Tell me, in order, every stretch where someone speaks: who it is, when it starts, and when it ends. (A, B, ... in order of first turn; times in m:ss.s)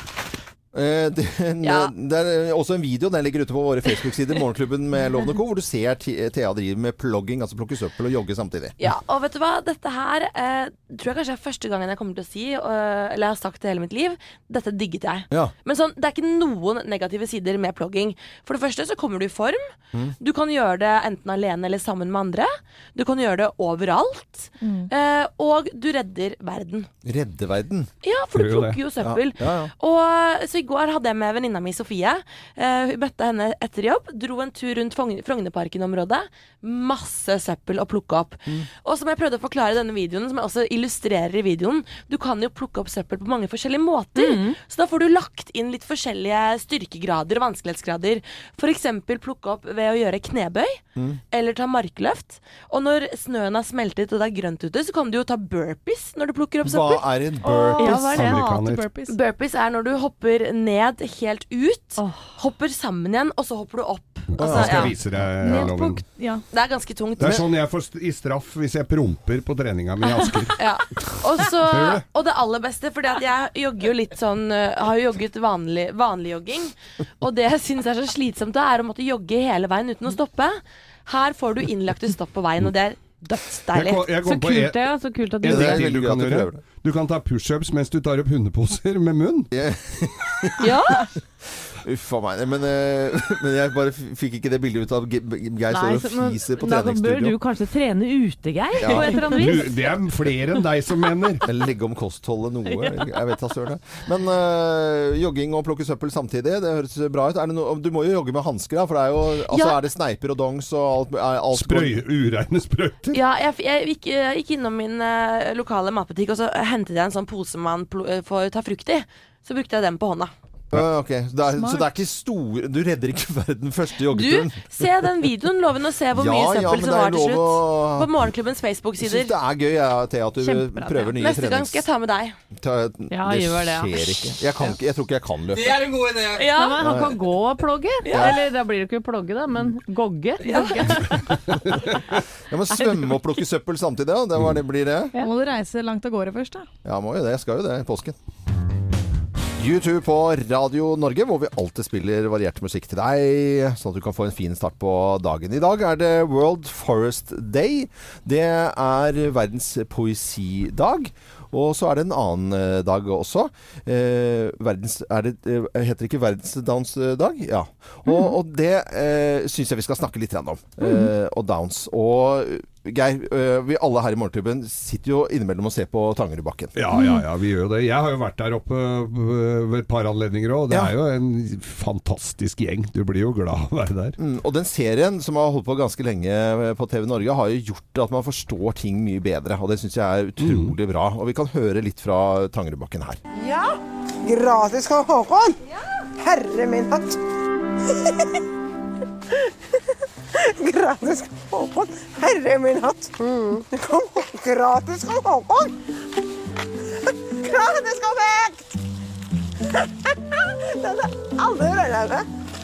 0:00.7-0:08.9 A
0:01.6-0:01.9 B
0:08.8-0:26.9 B
0:24.6-0:24.9 C
0:27.0-0:27.9 A
0:28.0-0:50.8 B
0:28.4-0:28.8 D
0:29.0-0:29.7 A
0:44.2-0:44.6 E
0:51.0-0:51.2 A
0:51.3-0:57.1 B
0:56.6-0:58.1 A
0:57.4-0:59.2 C
0:57.9-0:58.9 D
0:59.1-1:04.9 B
1:04.3-1:06.0 D
1:04.4-1:05.4 A
1:04.5-1:04.8 C
1:05.4-1:06.4 C
1:06.5-1:07.4 B
1:07.2-1:10.6 D
1:10.6-1:24.0 B
1:11.6-1:12.0 D
1:23.7-1:29.5 D
1:24.2-1:25.9 E
1:25.5-1:26.6 A
1:29.5-1:30.8 A
1:30.6-1:31.1 B
1:31.8-1:37.4 A
1:35.7-1:39.7 E
1:38.8-1:39.2 A
1:38.9-1:41.4 D
1:41.4-1:52.0 A
1:49.5-1:49.8 B
1:51.5-1:53.2 D
1:53.1-2:00.3 B
2:00.7-2:04.9 A
2:01.6-2:01.8 C
2:04.1-2:09.3 B
2:06.1-2:08.1 A
2:09.0-2:11.8 A
2:11.2-2:12.4 B
2:12.6-2:16.1 A
2:13.1-2:14.4 E
2:16.3-2:16.8 B
2:16.4-2:21.2 E
2:16.8-2:17.2 A
2:18.0-2:18.4 B
2:18.1-2:18.4 A
2:20.4-2:21.1 B
2:21.7-2:21.9 D
2:22.5-2:25.1 A
2:25.2-2:26.7 C
2:26.8-2:28.2 A
2:29.6-2:56.7 A
2:56.8-3:04.2 D
3:04.2-3:13.2 A
3:10.4-3:10.7 D
3:13.4-3:15.6 F
3:16.2-3:17.2 F
3:20.4-3:25.7 F
3:27.3-3:28.8 F
3:30.0-3:32.3 F